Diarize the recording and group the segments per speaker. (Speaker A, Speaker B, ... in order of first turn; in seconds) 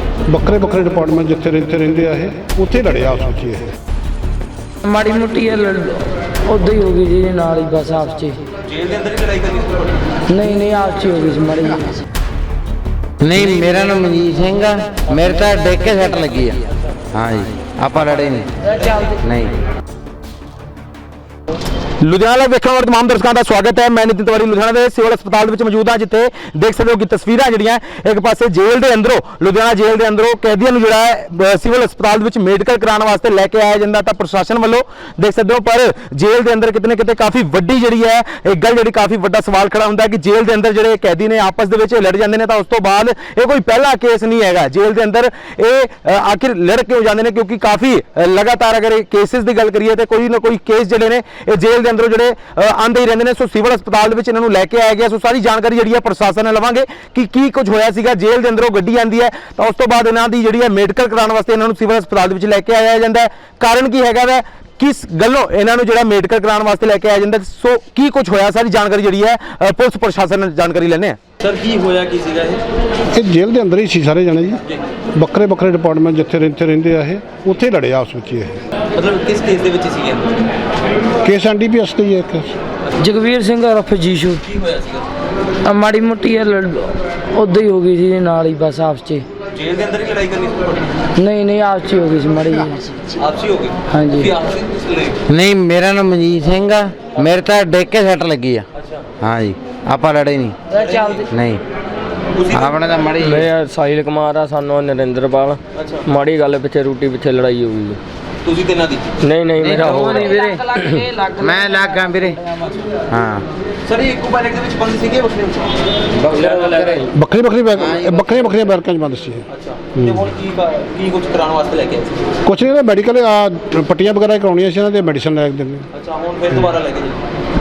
Speaker A: 0.3-3.7, 73.1-74.6, 75.2-78.6, 81.2-82.5, 117.1-119.4, 119.9-120.3, 122.4-125.8
Speaker B: 4.8-8.4, 10.3-12.0, 83.0-84.5, 85.6-89.2, 91.2-93.1, 93.9-94.3
Speaker C: 8.7-9.9, 71.4-72.6, 79.0-80.3, 84.7-85.0, 89.7-90.8, 93.2-93.7, 94.4-95.1, 100.8-101.1, 114.1-115.6, 120.4-122.1, 126.0-127.2
Speaker D: 13.2-18.6, 19.1-19.6, 95.3-98.7, 99.2-100.6, 101.2-101.6, 102.5-103.5, 109.6-112.4, 113.1-113.4, 116.1-117.1, 117.9-118.2
Speaker E: 22.0-71.6, 100.7-101.2, 102.4-102.7, 108.4-109.1, 113.9-115.4, 119.5-121.0, 126.0-126.3
Speaker F: 103.2-108.0, 109.2-110.0, 116.3-117.0